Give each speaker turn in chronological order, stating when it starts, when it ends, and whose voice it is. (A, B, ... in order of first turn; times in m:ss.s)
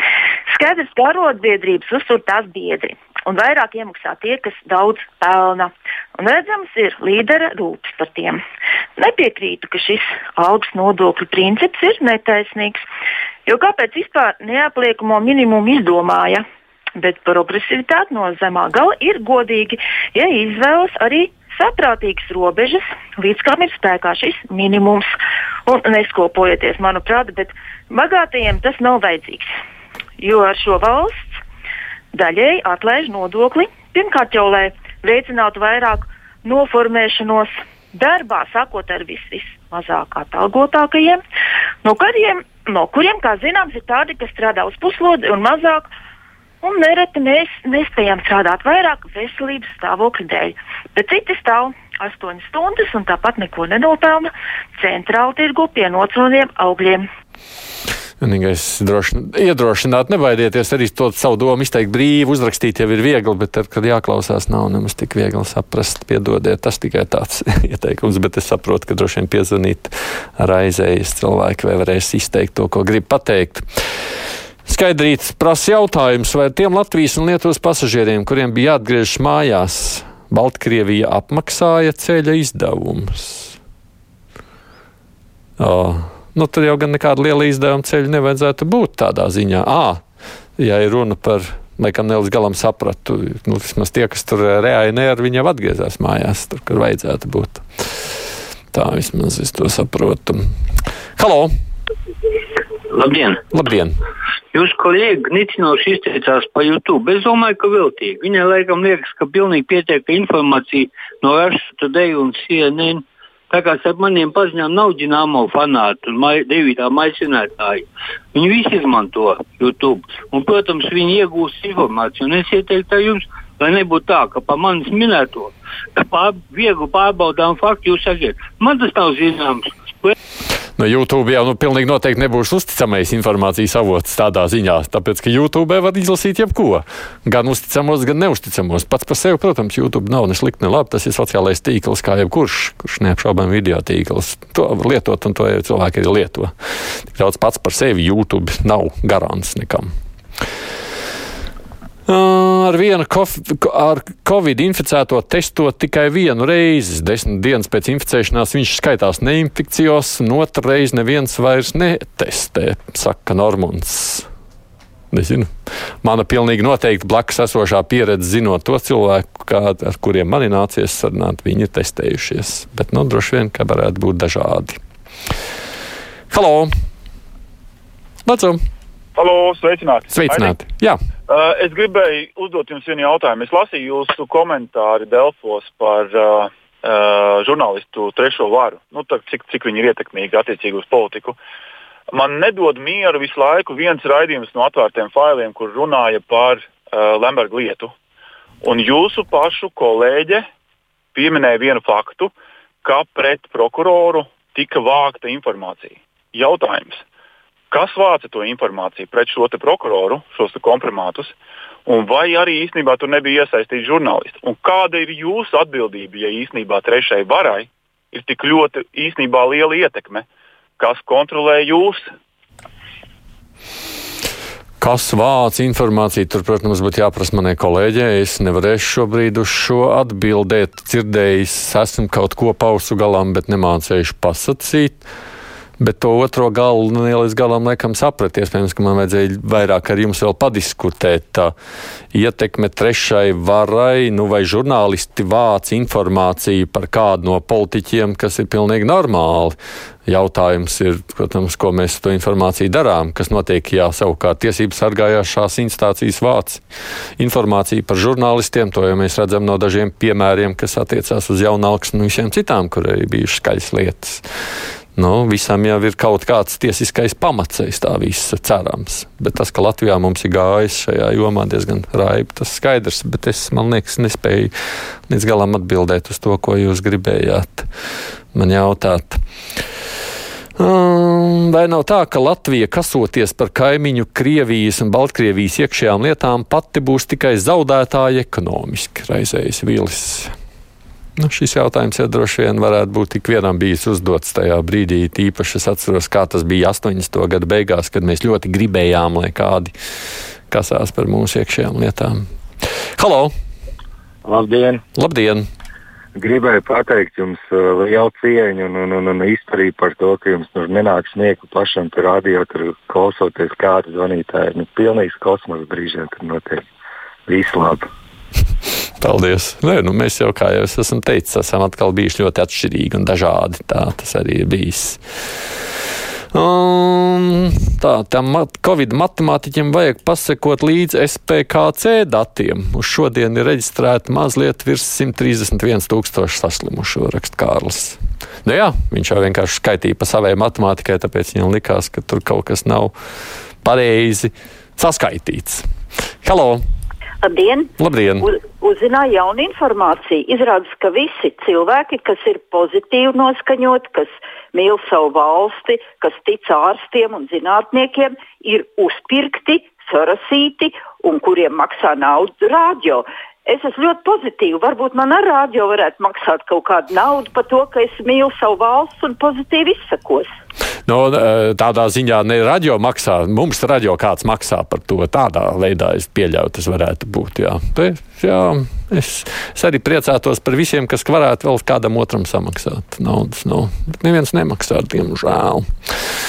0:00.5-0:08.4 A
0:09.0-0:12.8 A
0:13.4-0:16.4 A
0:17.0-0:25.1 A
0:25.6-0:29.5 A
0:30.2-0:31.4 A
0:32.1-0:41.2 A
0:41.8-0:45.9 A
0:46.6-0:57.0 A
0:58.2-1:13.6 B
1:14.6-1:23.6 B
1:25.6-1:30.0 B
1:30.6-1:37.6 B
1:38.7-1:40.4 B
1:41.2-1:41.5 B
1:42.9-1:43.4 C
1:43.5-1:43.9 B
1:44.5-2:10.1 C
2:10.8-2:26.5 B
2:27.1-2:29.9 B
2:32.1-2:44.3 B
2:45.1-2:45.5 B
2:46.0-2:54.8 B
2:56.3-2:56.7 B
2:58.2-2:58.6 B
2:59.2-3:00.6 D
3:00.1-3:01.0 B
3:01.3-3:11.4 D
3:12.1-3:17.9 D
3:18.6-3:20.4 D
3:21.1-3:22.3 D
3:22.8-3:27.0 D
3:27.7-3:31.3 D
3:31.9-3:40.2 D
3:40.8-3:42.1 D
3:44.8-3:55.0 B
3:55.8-4:01.5 B
4:02.1-4:16.6 B
4:17.2-4:24.2 B
4:25.0-4:34.5 B
4:35.1-4:37.7 B
4:38.3-4:39.2 B
4:40.6-4:50.3 B
4:51.2-4:59.7 B
5:00.5-5:02.2 B
5:03.0-5:03.3 B
5:04.2-5:04.8 E
5:04.9-5:05.4 B
5:06.2-5:16.6 E
5:17.3-5:17.9 E
5:19.0-5:25.0 B
5:26.3-5:42.9 B
5:43.6-5:45.6 B
5:46.2-5:46.6 B
5:47.2-5:47.7 F
5:47.8-5:48.3 B
5:48.2-6:10.3 F
6:10.9-6:25.6 B